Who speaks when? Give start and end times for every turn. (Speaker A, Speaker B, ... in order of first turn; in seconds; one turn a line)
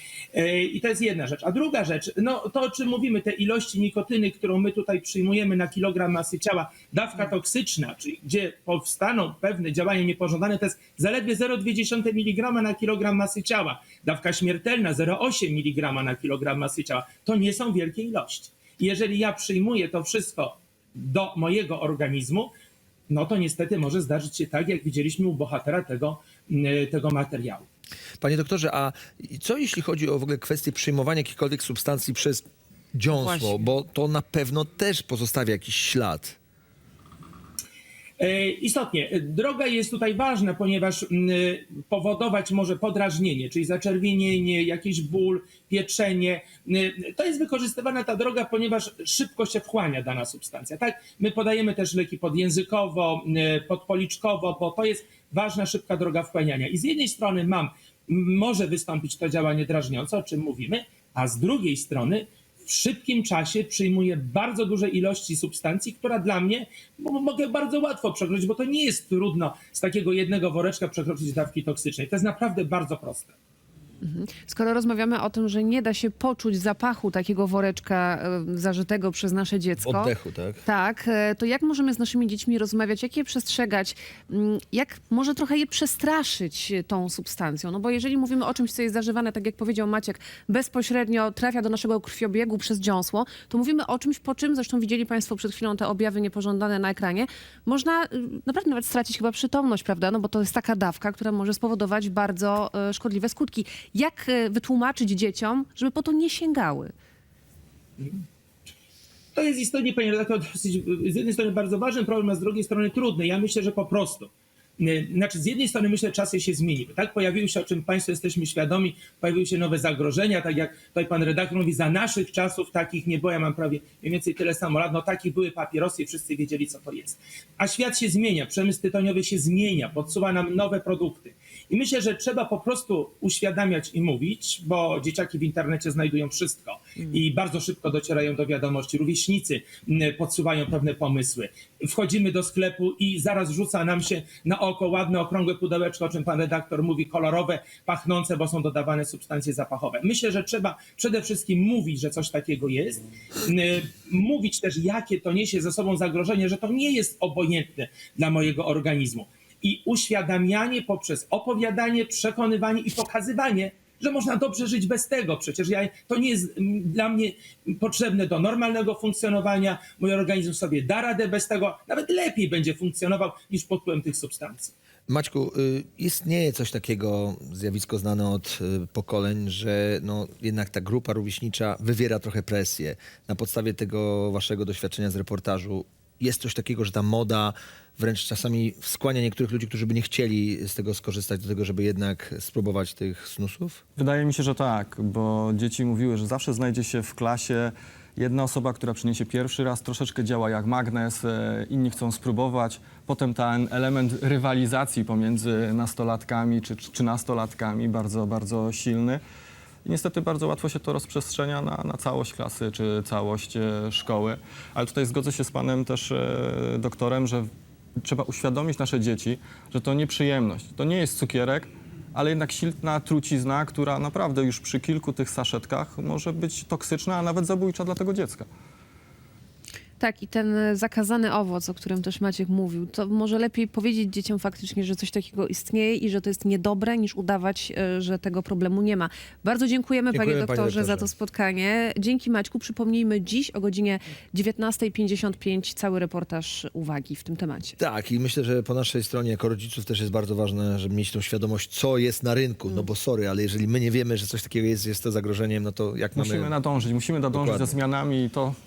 Speaker A: 0.3-22.5
Speaker A: 23.1-27.6
Speaker B: 28.2-36.4
Speaker C: 33.1-33.6
Speaker A: 38.2-73.3
Speaker C: 74.0-80.1
Speaker B: 79.8-80.6
Speaker C: 80.7-106.9
Speaker A: 108.0-108.2
Speaker A: 109.3-174.7
Speaker B: 175.1-193.8
Speaker D: 194.0-209.2
Speaker D: 209.8-217.5
Speaker D: 218.0-228.5
Speaker C: 230.0-247.8
Speaker B: 240.1-241.1
Speaker B: 247.8-256.5
Speaker D: 256.1-258.6
Speaker B: 257.3-257.8